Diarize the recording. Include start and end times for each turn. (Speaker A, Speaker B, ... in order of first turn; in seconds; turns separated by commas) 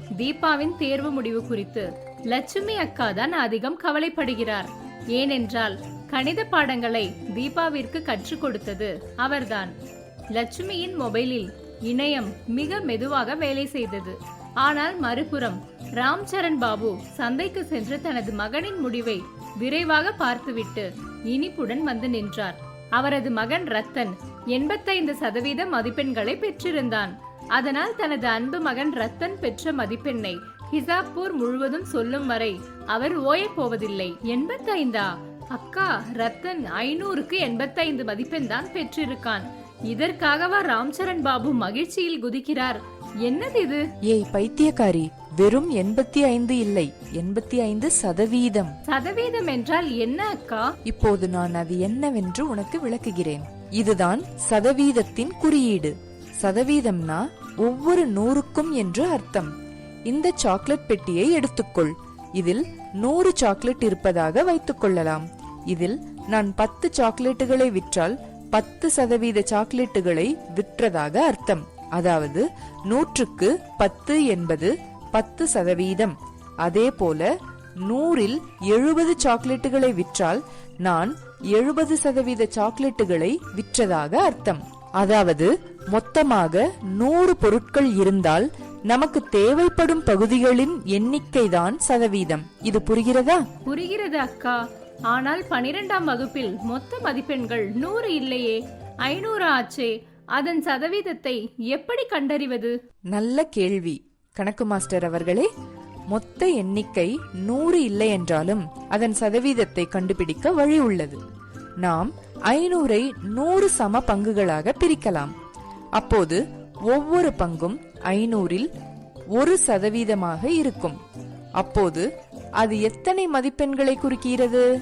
Speaker A: 0.1-9.7, Speaker A: 10.3-43.8, Speaker B: 44.0-48.7, Speaker A: 48.9-50.7, Speaker B: 50.9-59.5, Speaker B: 60.1-77.3, Speaker B: 77.8-93.4, Speaker A: 93.7-94.6, Speaker A: 95.1-102.7, Speaker B: 103.1-105.5, Speaker B: 106.1-111.2, Speaker B: 111.8-115.3, Speaker B: 116.0-118.7, Speaker B: 119.3-121.0, Speaker B: 121.6-122.1, Speaker B: 122.6-124.6